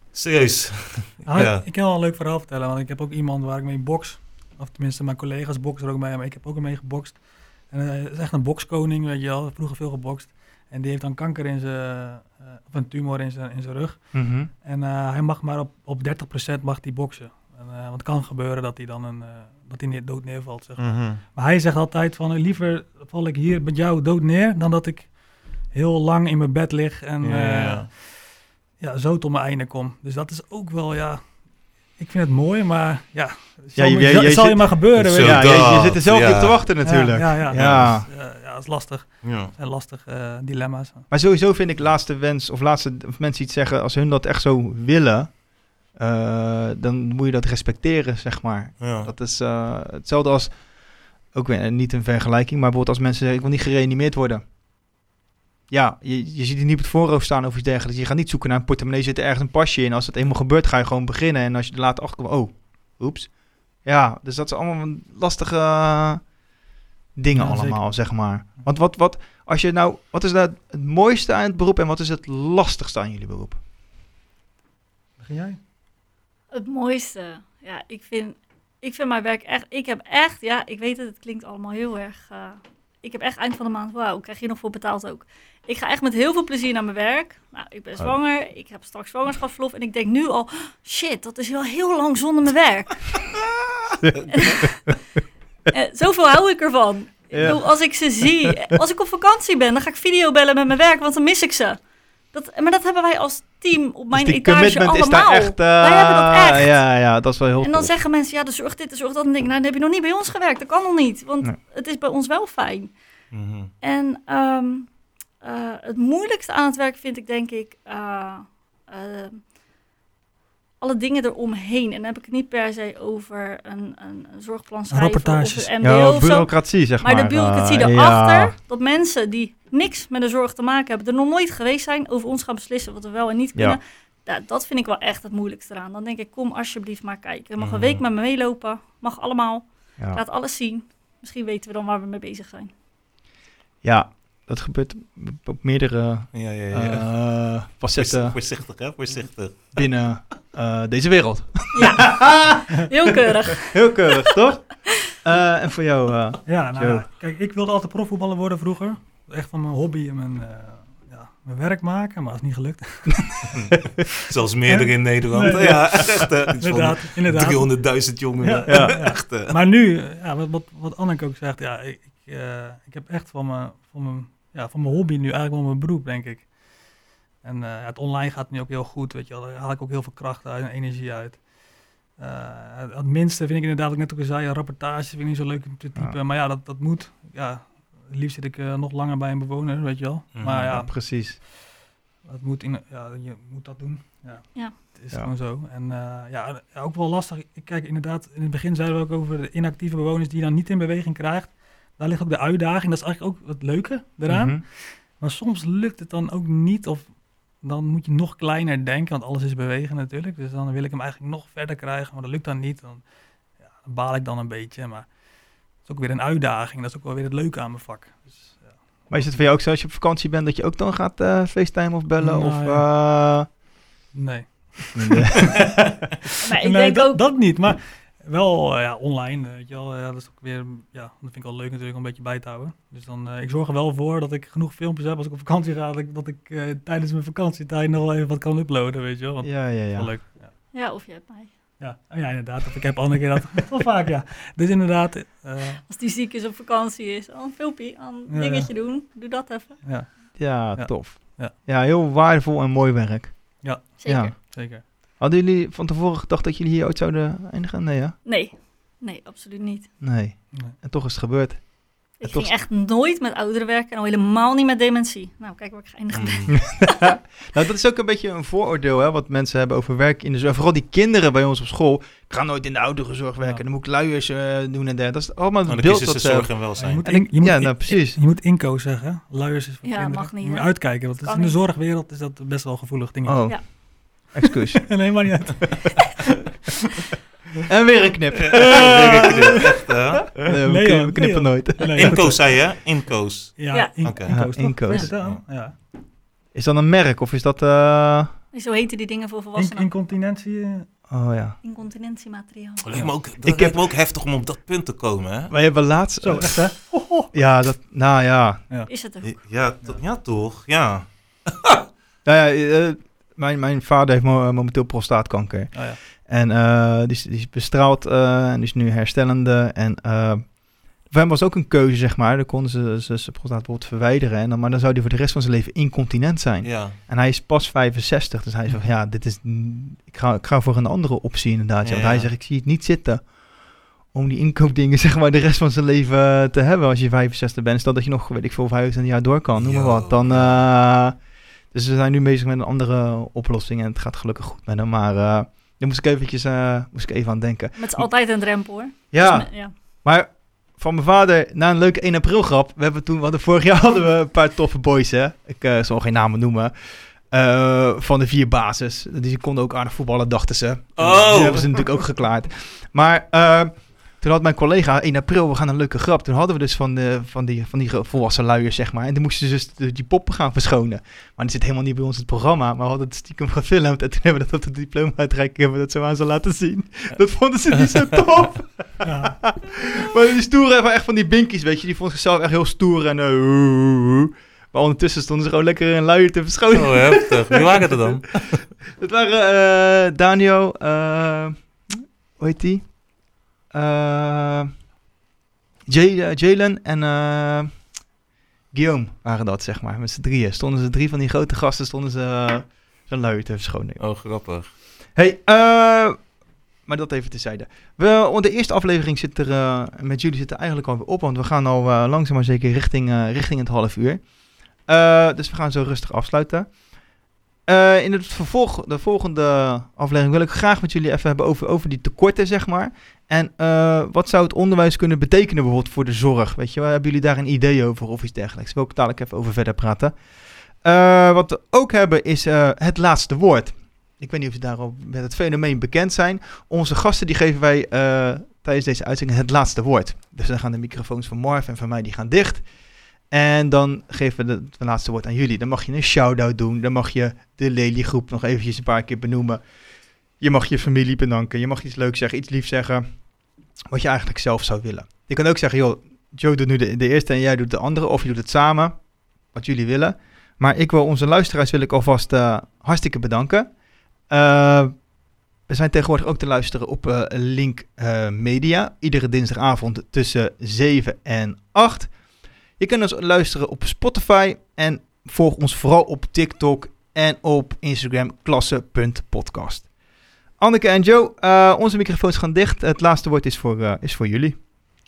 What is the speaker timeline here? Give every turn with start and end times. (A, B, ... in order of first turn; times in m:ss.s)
0:00.1-0:01.6 A
0:01.2-0:35.9 B
0:14.1-0:14.5 C
0:20.8-0:21.2 A
0:27.2-0:27.9 A
0:33.8-0:38.1 C
0:35.0-0:36.9 A
0:36.8-0:41.1 B
0:37.5-0:38.1 A
0:39.2-0:39.5 A
0:41.1-0:54.4 C
0:48.8-0:49.1 A
0:55.7-1:06.3 C
1:07.2-1:13.6 C
1:07.3-1:08.5 B
1:15.2-1:15.6 B
1:16.5-1:33.4 D
1:34.0-1:34.6 C
1:34.4-1:34.6 D
1:35.7-1:47.0 D
1:37.3-1:38.1 C
1:44.1-1:48.0 C
1:47.6-1:53.0 D
1:53.3-1:53.7 A
1:53.8-1:59.5 D
2:00.8-2:22.7 D
2:04.9-2:05.7 B
2:05.8-2:08.6 C
2:17.6-2:18.0 A
2:20.0-2:20.2 C
2:23.8-2:28.4 C
2:26.3-2:30.1 A
2:29.8-2:32.9 C
2:31.7-2:34.1 D
2:33.7-2:37.0 C
2:36.5-2:43.7 B
2:44.2-2:49.6 A
2:45.3-2:56.6 B
2:48.7-2:49.0 C
2:57.4-3:11.5 B
3:10.3-3:10.7 A
3:10.5-3:11.4 C
3:12.2-3:38.9 B
3:24.3-3:24.6 C
3:39.1-3:43.5 C
3:42.2-3:43.0 B
3:44.1-3:45.8 B
3:45.0-3:45.5 C
3:46.4-3:47.3 D
3:46.6-4:00.5 B
3:59.4-4:00.3 C
4:00.7-4:01.5 D
4:01.8-4:05.8 B
4:05.9-4:10.1 D
4:08.3-4:08.7 B
4:09.8-4:11.5 B
4:10.4-4:18.2 C
4:13.6-4:14.8 B
4:14.0-4:14.3 D
4:18.2-4:19.9 D
4:20.0-4:22.6 C
4:22.2-4:27.1 D
4:26.1-4:26.6 A
4:26.7-4:38.2 C
4:35.7-4:37.0 A
4:36.8-4:43.8 B
4:39.8-4:41.6 D
4:43.2-4:45.5 C
4:44.9-4:46.2 B
4:47.7-4:49.3 C
4:48.5-4:49.2 B
4:48.7-4:50.3 A
4:50.4-4:52.3 C
4:50.5-4:53.0 B
4:51.8-4:55.4 A
4:53.6-4:55.8 B
4:53.7-4:55.0 D
4:54.3-4:55.2 C
4:56.5-4:58.4 C
4:58.5-4:59.9 D
4:59.6-5:00.9 B
5:01.1-5:01.6 C
5:01.6-5:03.1 D
5:02.8-5:05.5 A
5:03.4-5:03.8 C
5:05.5-5:08.6 C
5:06.2-5:07.3 B
5:08.9-5:09.4 D
5:09.2-5:11.8 A
5:12.2-5:33.4 C
5:15.7-5:16.0 B
5:26.6-5:27.0 A
5:31.8-5:32.3 A
5:34.0-5:48.1 C
5:39.6-5:40.6 A
5:47.8-5:49.7 D
5:49.1-6:28.2 C
6:01.0-6:02.1 A
6:19.0-6:19.5 B
6:26.7-6:28.7 A
6:29.0-6:34.7 C
6:35.9-6:38.0 C
6:38.7-6:44.1 C
6:44.0-6:44.7 A
6:45.2-6:56.8 C
6:57.6-7:22.7 C
7:23.3-7:29.6 C
7:30.3-7:33.3 C
7:33.9-7:45.1 C
7:45.6-7:52.2 C
7:52.7-7:59.9 C
8:00.6-8:04.6 C